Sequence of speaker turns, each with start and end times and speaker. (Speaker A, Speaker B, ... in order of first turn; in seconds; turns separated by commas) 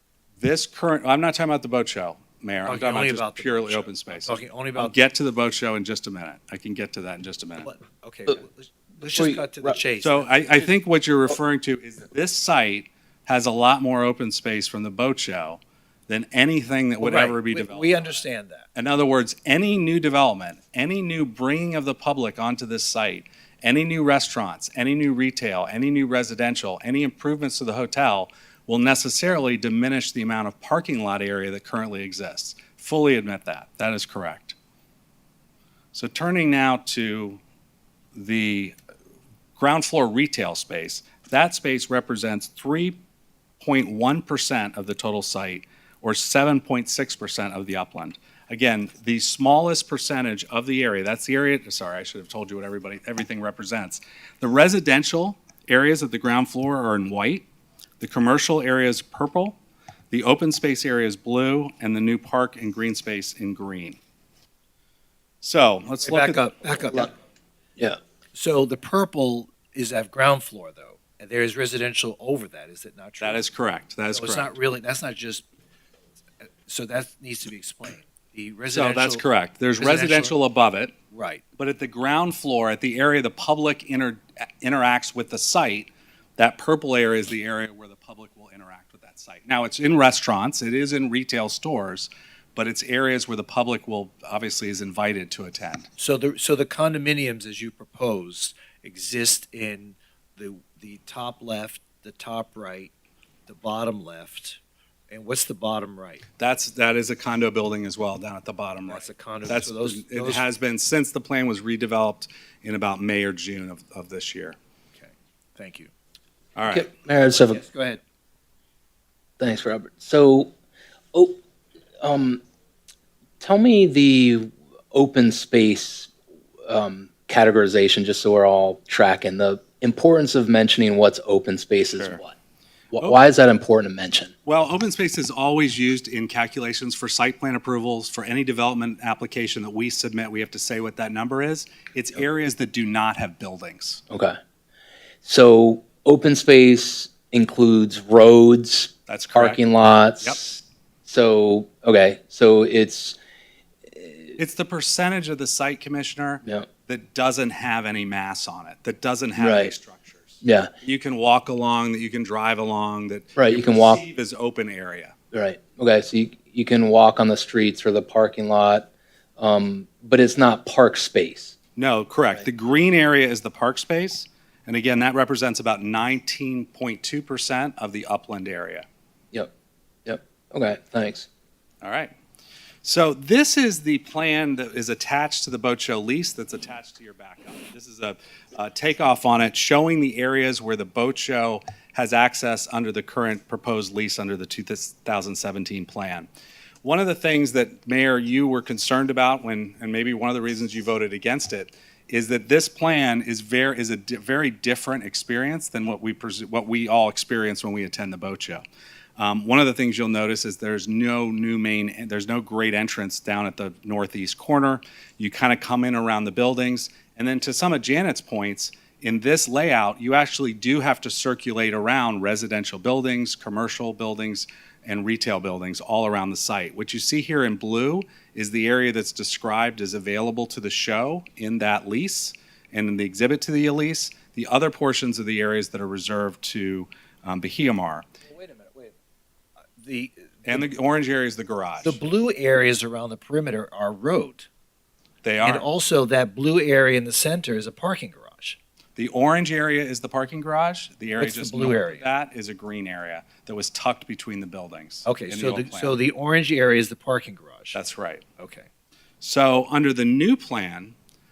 Speaker A: 0.4-7.7, Speaker B: 2.6-5.0, Speaker B: 7.6-10.7, Speaker C: 9.1-9.8, Speaker A: 10.0-18.2, Speaker B: 17.0-18.7, Speaker A: 18.8-34.5, Speaker A: 35.9-37.4, Speaker A: 38.1-38.7, Speaker A: 39.6-43.0, Speaker A: 43.6-57.5, Speaker A: 58.0-59.6, Speaker A: 60.1-64.0, Speaker A: 65.4-66.4, Speaker B: 66.0-67.1, Speaker B: 68.3-73.4, Speaker A: 73.2-74.5, Speaker B: 74.1-75.4, Speaker B: 76.7-79.2, Speaker A: 78.7-80.9, Speaker B: 79.8-80.4, Speaker B: 81.1-81.4, Speaker A: 81.6-95.9, Speaker B: 96.0-102.9, Speaker B: 103.5-104.6, Speaker B: 105.1-106.2, Speaker A: 106.4-114.5, Speaker B: 108.9-110.5, Speaker B: 115.0-115.9, Speaker A: 116.5-116.9, Speaker C: 116.7-117.6, Speaker B: 117.5-118.0, Speaker C: 119.4-120.5, Speaker C: 122.0-122.4, Speaker C: 123.4-126.1, Speaker C: 126.7-132.4, Speaker C: 132.9-134.3, Speaker A: 134.5-144.0, Speaker C: 145.2-153.2, Speaker A: 149.1-149.6, Speaker C: 153.9-154.4, Speaker A: 154.4-165.1, Speaker C: 159.4-159.7, Speaker C: 160.4-160.7, Speaker C: 163.4-164.0, Speaker C: 165.3-171.6, Speaker A: 171.8-178.9, Speaker C: 180.1-181.3, Speaker A: 181.8-182.1, Speaker A: 182.8-196.3, Speaker A: 196.8-208.6, Speaker A: 209.2-238.1, Speaker B: 238.2-238.9, Speaker B: 239.8-240.7, Speaker A: 240.4-242.0, Speaker B: 241.8-244.5, Speaker A: 245.2-245.7, Speaker B: 245.4-248.6, Speaker A: 248.9-256.0, Speaker B: 251.2-252.1, Speaker B: 255.1-257.8, Speaker A: 257.7-258.2, Speaker B: 258.4-258.7, Speaker A: 259.2-260.9